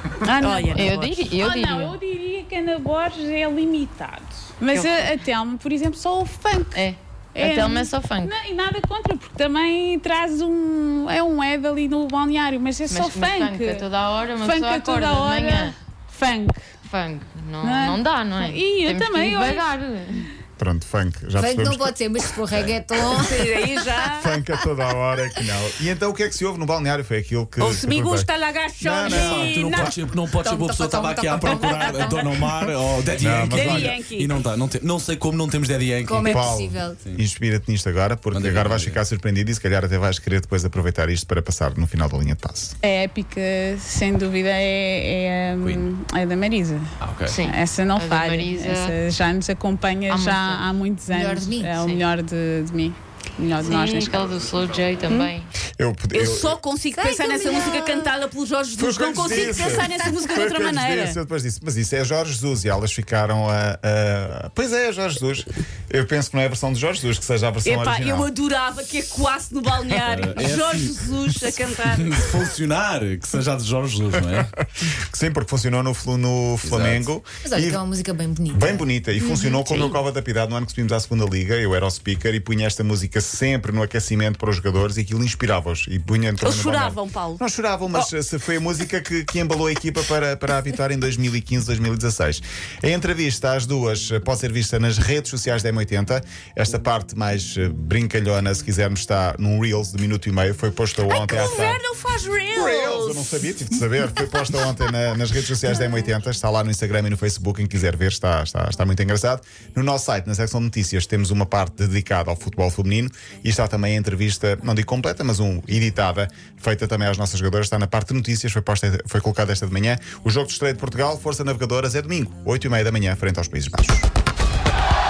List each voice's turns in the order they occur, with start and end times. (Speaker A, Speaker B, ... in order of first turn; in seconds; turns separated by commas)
Speaker A: 0.2-6.8, Speaker B: 0.4-1.3, Speaker C: 0.4-2.0, Speaker C: 4.7-5.2, Speaker C: 6.7-8.3, Speaker A: 7.3-13.8, Speaker C: 12.9-15.8, Speaker A: 14.4-16.6, Speaker C: 16.8-20.3, Speaker A: 17.6-19.7, Speaker D: 20.6-21.9, Speaker E: 21.4-23.7, Speaker B: 23.0-24.3, Speaker D: 24.1-28.3, Speaker B: 27.6-30.0, Speaker D: 28.8-29.7, Speaker F: 29.0-37.2, Speaker E: 30.4-32.3, Speaker D: 31.4-32.5, Speaker D: 33.2-34.0, Speaker B: 33.5-34.4, Speaker E: 36.0-37.0, Speaker D: 36.2-42.8, Speaker F: 38.3-39.0, Speaker A: 42.8-46.9, Speaker F: 45.6-45.9, Speaker F: 47.0-47.4, Speaker C: 47.3-49.0, Speaker A: 47.4-54.3, Speaker C: 50.1-50.7, Speaker E: 51.1-51.7, Speaker C: 51.7-52.1, Speaker C: 53.6-55.5, Speaker D: 55.8-56.6, Speaker B: 56.1-61.2, Speaker E: 56.9-58.1, Speaker D: 58.8-68.3, Speaker B: 67.6-72.2, Speaker F: 70.1-74.5, Speaker D: 75.1-77.8, Speaker F: 76.6-77.1, Speaker E: 77.4-78.9, Speaker D: 78.5-101.8, Speaker B: 79.2-79.9, Speaker B: 86.4-88.1, Speaker B: 101.1-103.4, Speaker D: 102.5-124.1